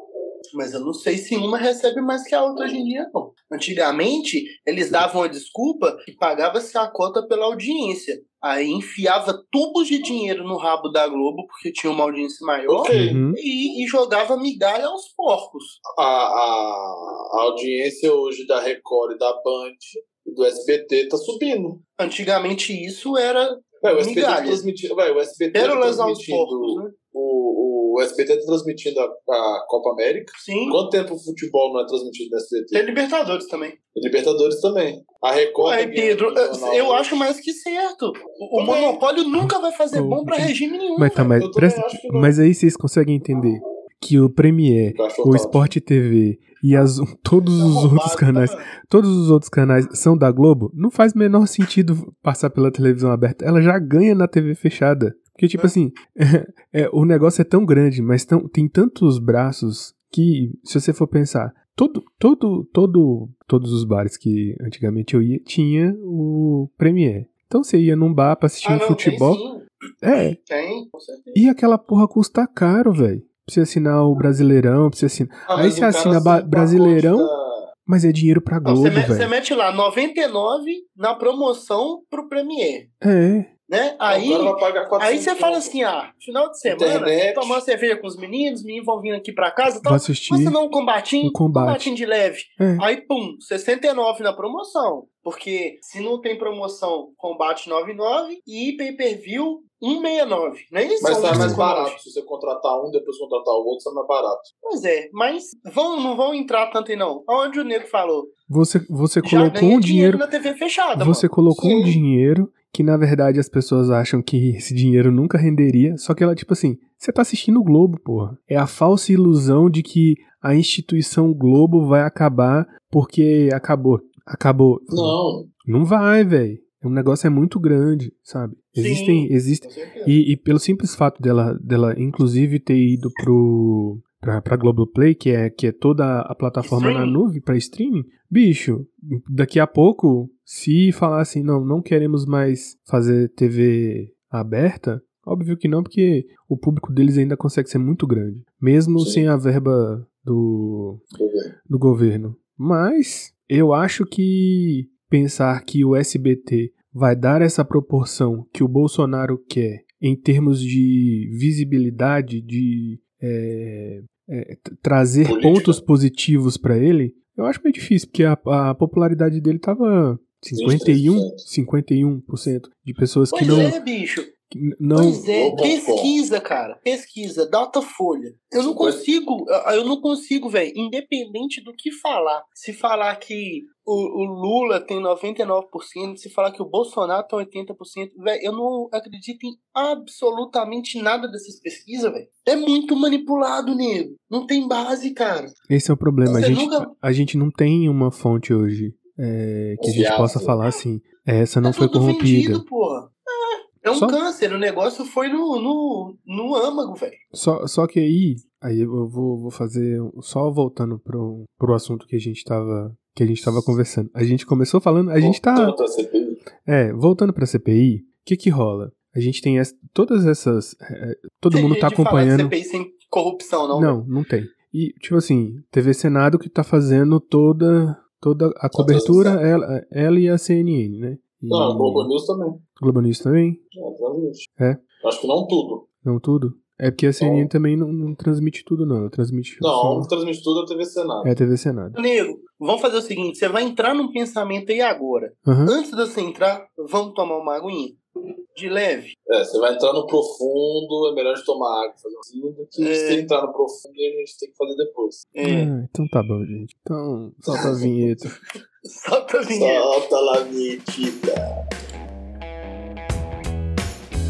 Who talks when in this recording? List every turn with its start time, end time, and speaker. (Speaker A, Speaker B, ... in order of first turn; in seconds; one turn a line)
Speaker A: 0.5-15.8
Speaker B: 12.7-13.2
Speaker C: 12.9-13.4
Speaker B: 15.9-21.8
Speaker A: 22.0-24.6
Speaker B: 23.8-32.8
Speaker A: 25.5-26.9
Speaker A: 30.4-30.8
Speaker A: 32.7-33.8
Speaker B: 33.9-37.1
Speaker A: 35.6-41.3
Speaker B: 38.5-39.0
Speaker C: 39.4-69.4
Speaker B: 41.2-42.4
Speaker B: 44.9-45.7
Speaker A: 47.4-48.7
Speaker A: 68.6-69.6
Speaker C: 70.0-70.4
Speaker A: 70.4-71.4
Speaker C: 71.3-77.3
Speaker B: 75.5-77.7
Speaker C: 77.8-79.3
Speaker A: 78.6-82.9
Speaker C: 83.0-83.5
Speaker A: 83.7-102.0
Speaker B: 84.1-85.7
Speaker B: 86.7-87.6
Speaker C: 89.8-90.6
Speaker C: 91.2-91.9
Speaker C: 92.6-92.8
Speaker B: 101.0-104.5
Speaker C: 101.3-101.6
Speaker A: 104.6-108.3
Speaker C: 108.5-110.2
Speaker A: 109.2-112.0
Speaker C: 110.9-151.0
Speaker B: 124.9-125.5
Speaker A: 128.8-130.1
Speaker A: 136.6-137.2
Speaker B: 149.0-149.2
Speaker B: 151.2-151.5
Speaker C: 151.7-173.8
Speaker B: 165.2-165.8
Speaker B: 170.5-171.4
Speaker A: 173.3-174.3
Speaker C: 174.5-175.3
Speaker A: 174.9-195.5
Speaker B: 175.3-176.1
Speaker B: 178.6-179.0
Speaker C: 195.7-202.6
Speaker A: 196.2-196.9
Speaker B: 199.8-200.6
Speaker A: 201.6-207.2
Speaker C: 203.9-204.2
Speaker C: 207.3-215.8
Speaker B: 215.2-216.4
Speaker C: 216.6-222.5
Speaker A: 221.5-224.0
Speaker C: 223.7-232.1
Speaker B: 228.7-229.4
Speaker B: 231.5-232.6
Speaker C: 232.8-233.6
Speaker B: 233.7-234.5
Speaker B: 235.0-235.8
Speaker C: 236.0-240.1
Speaker B: 237.2-237.5
Speaker B: 239.6-241.4
Speaker C: 241.2-242.0
Speaker A: 241.9-248.0
Speaker C: 245.4-245.7
Speaker A: 248.5-249.1
Speaker B: 249.3-255.2
Speaker A: 252.8-253.3
Speaker A: 255.3-255.7
Speaker C: 255.4-258.3
Speaker B: 257.5-257.8
Speaker A: 258.8-259.9
Speaker B: 259.5-261.4